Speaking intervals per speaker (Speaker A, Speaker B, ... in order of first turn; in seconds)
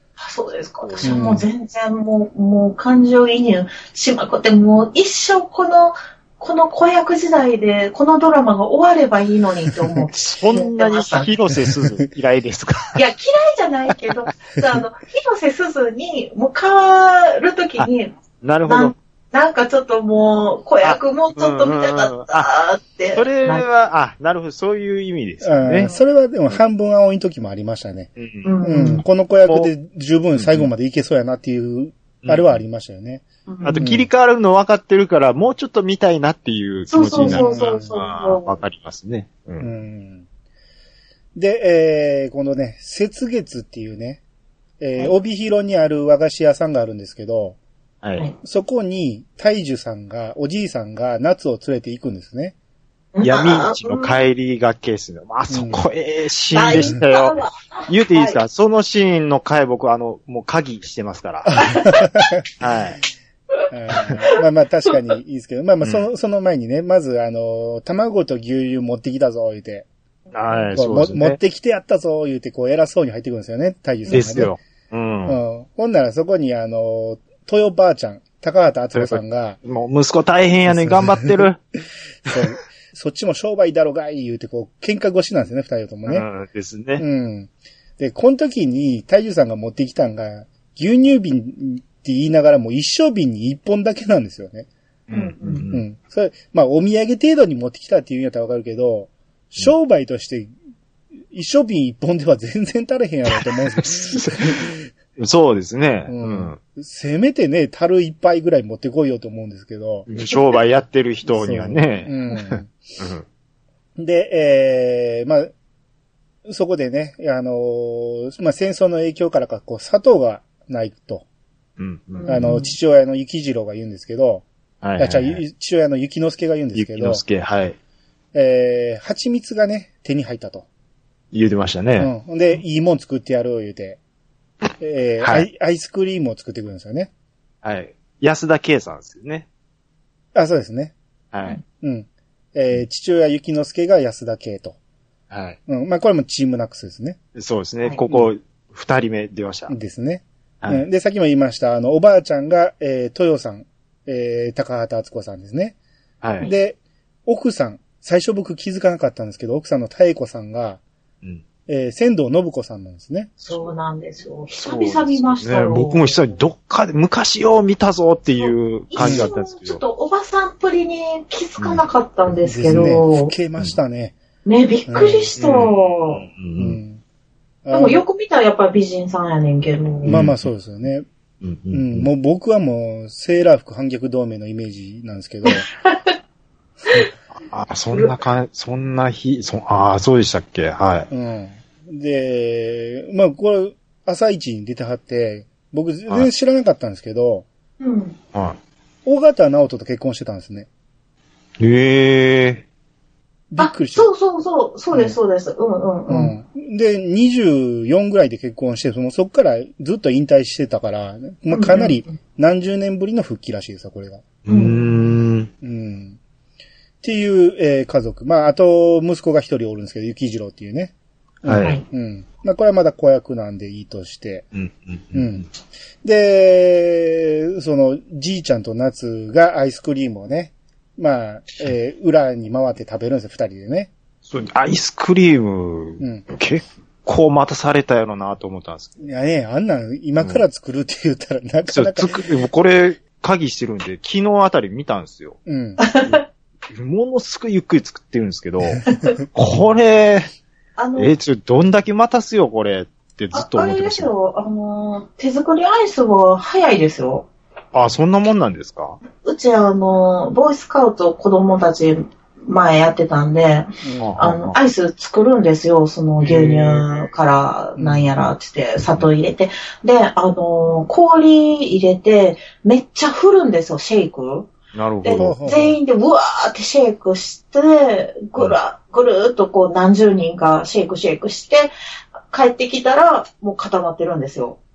Speaker A: 0.2-11.4, 12.9-18.1, 18.7-23.6, 28.4-29.0, 33.5-33.9, 36.9-38.5, 53.1-54.2, 56.5-58.4, 61.5-62.3, 70.5-70.8, 74.1-74.5, 95.1-95.7, 122.2-122.7, 163.5-166.2, 168.4-173.3, 174.4-176.2, 177.7-180.2, 185.4-186.2, 187.9-188.2, 197.8-198.2, 203.6-206.3, 211.5-212.2, 214.5-214.8, 221.5-221.8, 245.8-246.2, 248.9-249.2, 250.8-251.1, 253.3-257.3, 259.2-274.5, 275.0-281.7, 282.3-284.6
Speaker B: 0.8-1.2, 10.2-13.0, 18.4-18.9, 20.8-22.5, 23.1-25.9, 28.2-28.5, 29.4-29.7, 30.4-30.7, 32.2-32.6, 33.6-39.7, 48.0-48.3, 53.2-61.6, 62.6-63.0, 65.8-66.1, 70.3-71.4, 74.1-75.4, 78.9-81.6, 86.1-87.0, 95.1-95.8, 103.3-106.6, 110.1-113.2, 121.8-122.5, 124.8-125.4, 126.8-127.8, 131.3-132.1, 135.2-135.5, 137.6-139.5, 141.3-141.6, 145.3-145.6, 147.3-149.7, 156.2-156.5, 163.4-163.7, 164.5-169.8, 171.6-171.8, 175.4-176.8, 180.1-180.5, 181.4-182.1, 187.3-191.1, 201.6-202.7, 214.4-215.5, 221.5-221.8, 224.6-225.4, 234.3-239.0, 241.7-245.4, 246.7-250.3, 251.0-254.1, 257.7-259.0, 264.0-264.6, 266.2-267.1, 274.7-275.3
Speaker C: 1.0-1.5, 25.4-28.1, 28.6-33.2, 33.8-34.1, 37.2-37.9, 39.6-40.2, 41.4-44.2, 44.8-47.6, 48.4-52.5, 55.5-55.8, 61.5-62.4, 63.7-69.9, 70.8-74.5, 75.3-79.6, 80.7-81.5, 82.3-86.3, 87.0-94.7, 95.7-100.5, 101.3-104.8, 106.1-110.1, 111.3-112.7, 114.0-115.5, 116.5-121.2, 122.3-124.5, 125.0-127.2, 128.3-130.7, 132.0-134.0, 134.8-137.1, 140.3-140.9, 141.8-144.8, 145.7-147.2, 149.7-155.8, 156.4-160.8, 161.7-163.3, 169.0-169.3, 172.5-174.2, 174.9-175.3, 176.6-177.0, 177.6-178.0, 180.0-181.1, 181.7-185.7, 191.1-197.5, 199.1-200.7, 203.5-204.1, 206.1-214.3, 215.6-216.2, 217.0-224.5, 225.1-225.5, 226.0-233.9, 236.0-236.2, 239.0-242.1, 245.5-245.8, 263.8-264.2, 267.8-268.1, 275.1-275.8